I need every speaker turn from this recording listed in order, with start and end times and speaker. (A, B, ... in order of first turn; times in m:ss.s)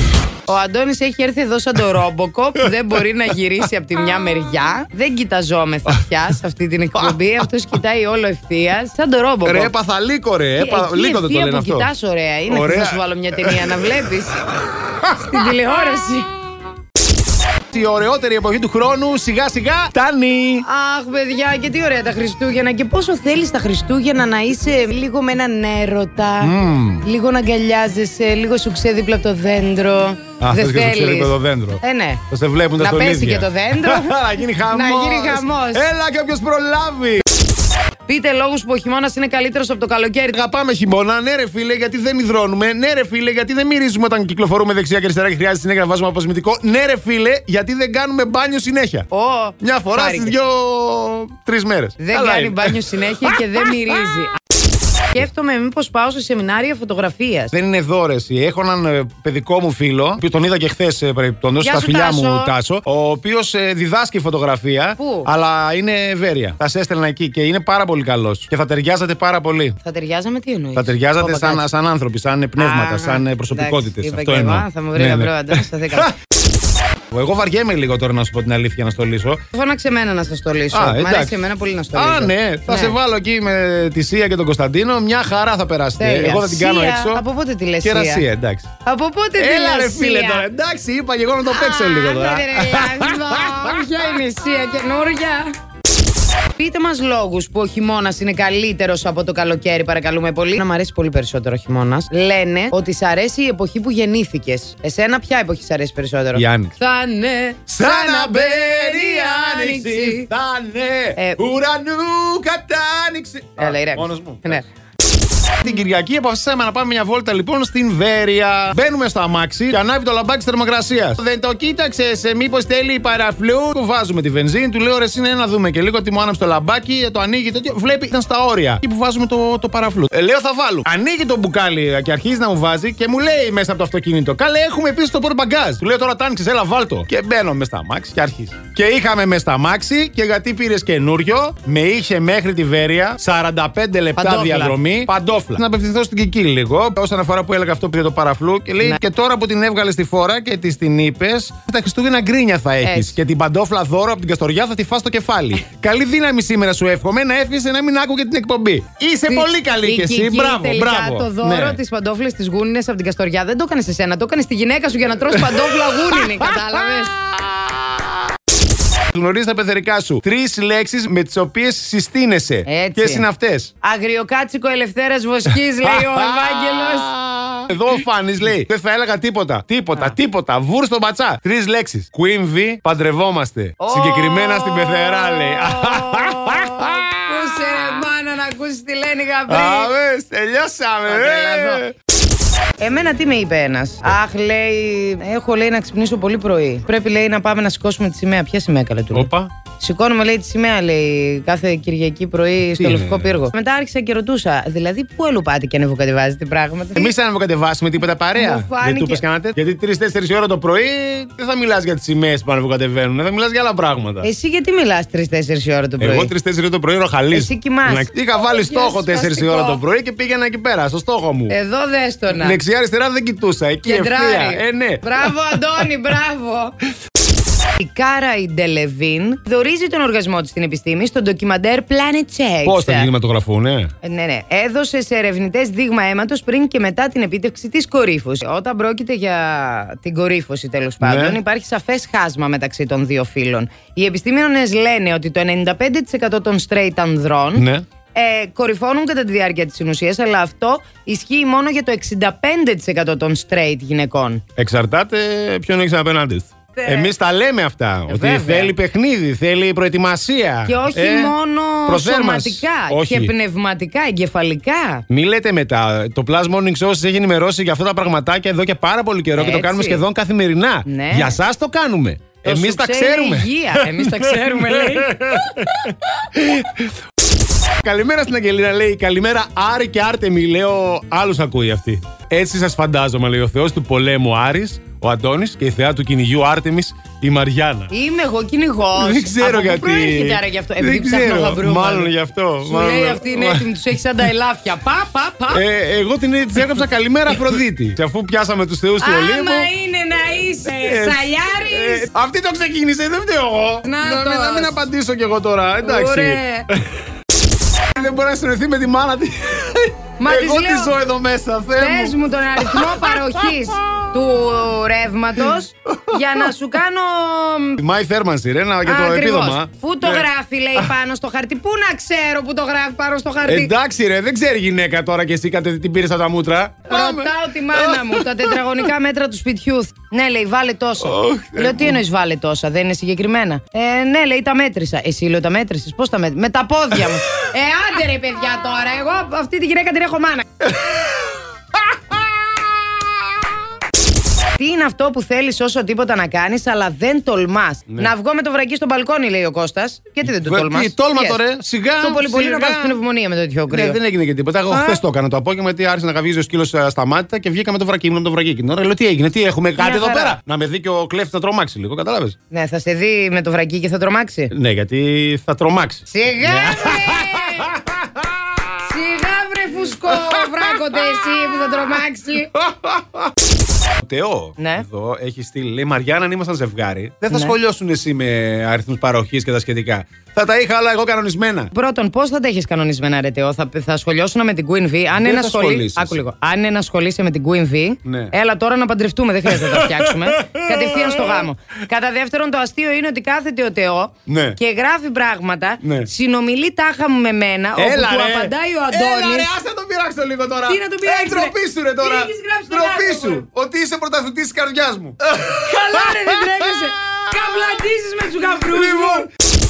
0:00.5-0:09.7 A
0:09.4-0:11.9 B
0:10.6-0:14.5 A
0:12.5-0:13.9 B
0:14.8-0:15.5 B
0:15.1-0:16.3 A
0:17.7-0:20.6 B
0:20.6-0:32.2 A
0:26.4-0:27.0 B
0:30.4-0:37.2 B
0:32.8-0:35.9 A
0:38.1-0:40.4 A
0:40.3-0:49.1 B
0:49.1-0:50.4 A
0:49.6-0:53.5 B
0:52.0-0:54.4 A
0:55.1-0:57.5 A
0:57.5-1:09.8 B
1:01.6-1:02.5 A
1:05.0-1:05.3 A
1:09.8-1:11.7 A
1:10.8-1:16.1 B
1:12.6-1:16.1 A
1:17.1-1:19.4 B
1:19.5-1:23.0 A
1:20.7-1:27.2 B
1:26.0-1:28.2 A
1:27.8-1:28.7 B
1:28.8-1:30.5 A
1:29.4-1:34.1 B
1:31.5-1:35.5 A
1:36.6-1:50.3 A
1:46.4-1:46.7 B
1:47.7-1:54.6 B
1:53.6-1:54.6 A
1:55.3-2:41.8 B
2:24.2-2:24.8 A
2:32.8-2:33.2 A
2:39.3-2:47.2 A
2:45.3-2:46.6 B
2:47.3-2:48.1 B
2:49.0-2:53.7 B
2:52.7-2:53.3 A
2:53.8-2:57.5 A
2:55.8-3:08.0 B
3:03.8-3:09.9 A
3:09.5-3:11.9 B
3:11.1-3:11.8 A
3:12.8-3:27.1 A
3:19.1-3:19.5 B
3:22.7-3:23.5 B
3:27.0-3:34.3 B
3:28.3-3:29.2 A
3:34.2-3:36.3 A
3:36.0-3:41.6 B
3:37.3-3:39.8 A
3:41.5-3:42.6 A
3:42.3-3:45.4 B
3:43.8-3:46.8 A
3:47.8-3:53.1 A
3:52.6-3:53.9 B
3:54.0-4:14.4 A
4:01.0-4:01.4 B
4:07.6-4:07.9 B
4:14.6-4:21.4 B
4:16.8-4:17.1 A
4:18.1-4:18.7 A
4:20.7-4:25.0 A
4:21.9-4:23.3 B
4:25.1-4:36.9 B
4:29.4-4:30.0 A
4:30.8-4:31.4 A
4:32.4-4:35.7 A
4:37.6-4:47.9 B
4:47.9-4:52.1 A
4:49.0-4:53.7 B
4:52.6-4:55.6 A
4:55.5-4:59.7 B
4:59.0-5:02.1 A
5:00.7-5:06.8 B
5:03.8-5:04.8 A
5:05.8-5:06.7 A
5:07.7-5:14.1 B
5:10.2-5:11.0 A
5:11.8-5:17.8 A
5:15.9-5:16.5 B
5:17.8-5:20.9 B
5:18.8-5:23.7 A
5:23.4-5:28.8 B
5:26.9-5:40.5 A
5:31.0-5:32.0 B
5:40.7-5:41.3 B
5:41.9-5:42.4 B
5:44.6-5:51.4 A
5:50.2-5:53.0 B
5:52.0-5:54.0 A
5:53.7-6:02.4 B
5:54.7-5:55.0 A
5:59.8-6:00.4 A
6:02.5-6:04.5 A
6:04.5-6:08.7 B
6:06.1-6:07.8 A
6:08.8-6:12.5 A
6:09.8-6:12.0 B
6:12.5-6:13.3 B
6:14.0-6:21.7 B
6:14.6-6:14.9 A
6:21.7-6:39.6 A
6:25.2-6:26.2 B
6:28.0-6:28.3 B
6:29.5-6:31.5 B
6:34.3-6:34.6 B
6:35.8-6:36.1 B
6:37.8-6:47.2 B
6:40.7-6:43.4 A
6:45.4-6:49.3 A
6:48.6-6:49.3 B